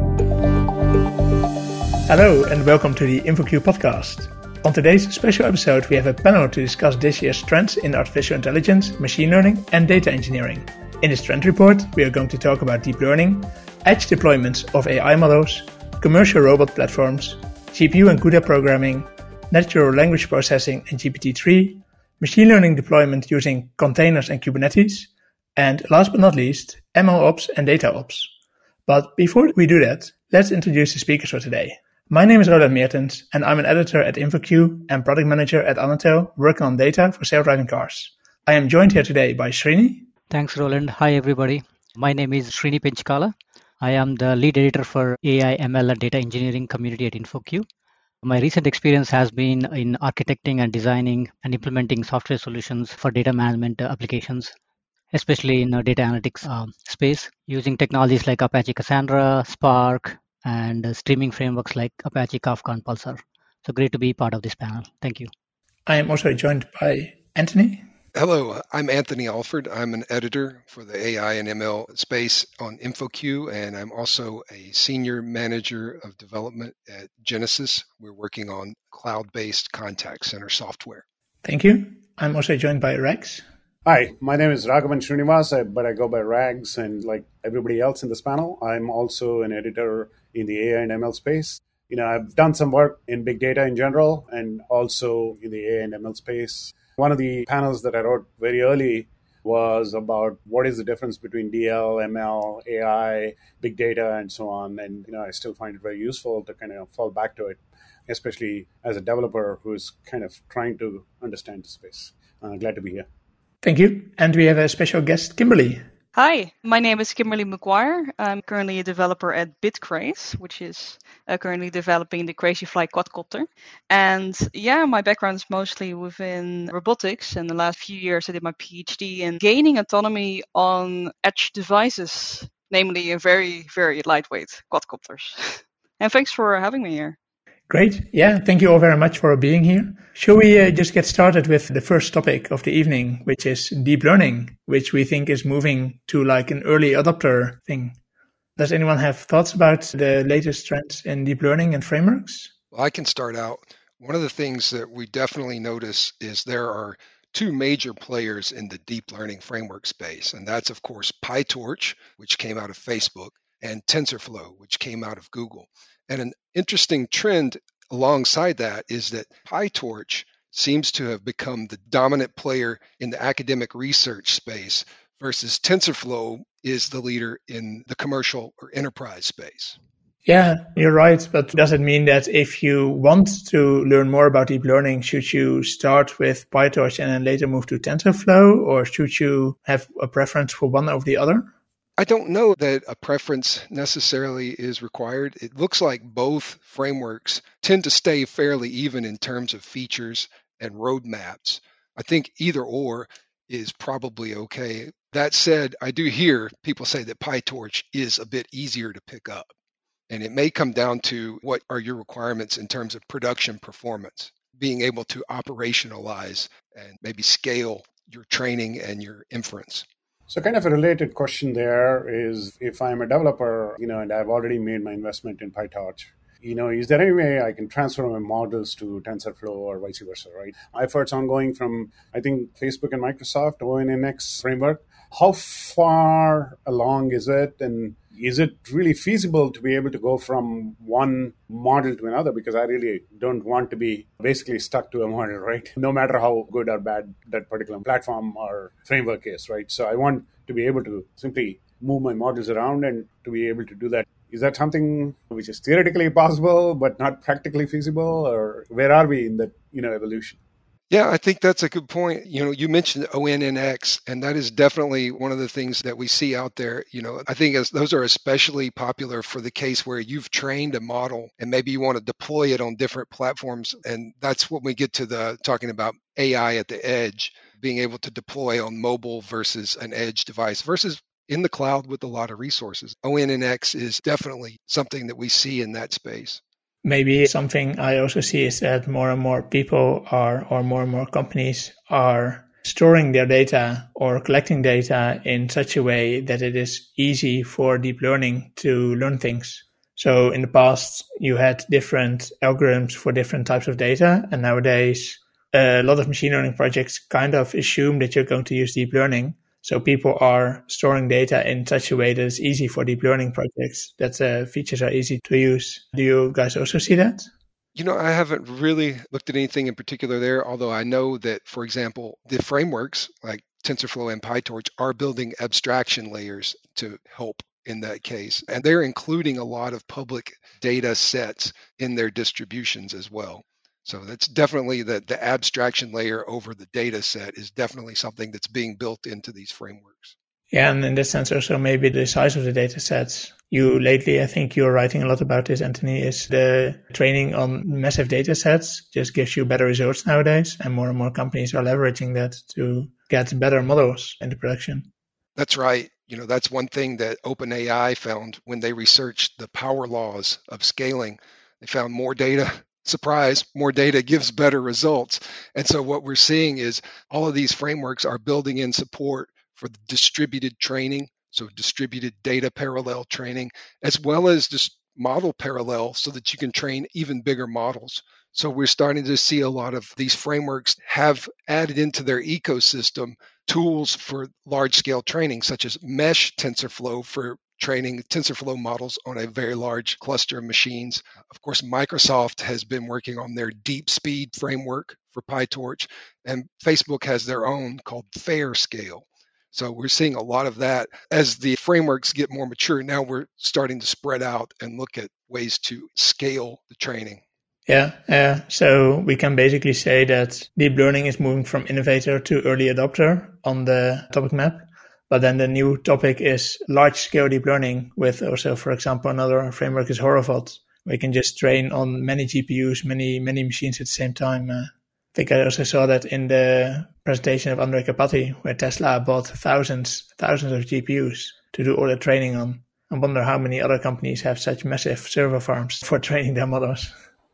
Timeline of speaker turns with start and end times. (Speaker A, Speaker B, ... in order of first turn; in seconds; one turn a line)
Speaker A: 2.1-28.3
Speaker A: 28.9-40.1
Speaker B: 40.3-47.7
Speaker B: 48.2-54.5
Speaker B: 55.1-65.3
Speaker A: 65.9-67.9
Speaker C: 68.1-81.0
Speaker A: 81.4-83.4
Speaker D: 83.8-113.1
Speaker A: 113.6-115.9
Speaker E: 116.2-137.2
Speaker A: 137.7-148.0
Speaker A: 148.6-152.5
Speaker C: 152.7-179.8
Speaker A: 180.3-191.5
Speaker C: 192.0-209.5
Speaker C: 210.1-219.8
Speaker D: 220.3-260.4
Speaker C: 260.9-286.4
Speaker A: 286.8-317.3
Speaker C: 317.8-340.1
Speaker A: 340.5-354.9
Speaker C: 355.4-407.2
Speaker A: 407.7-436.9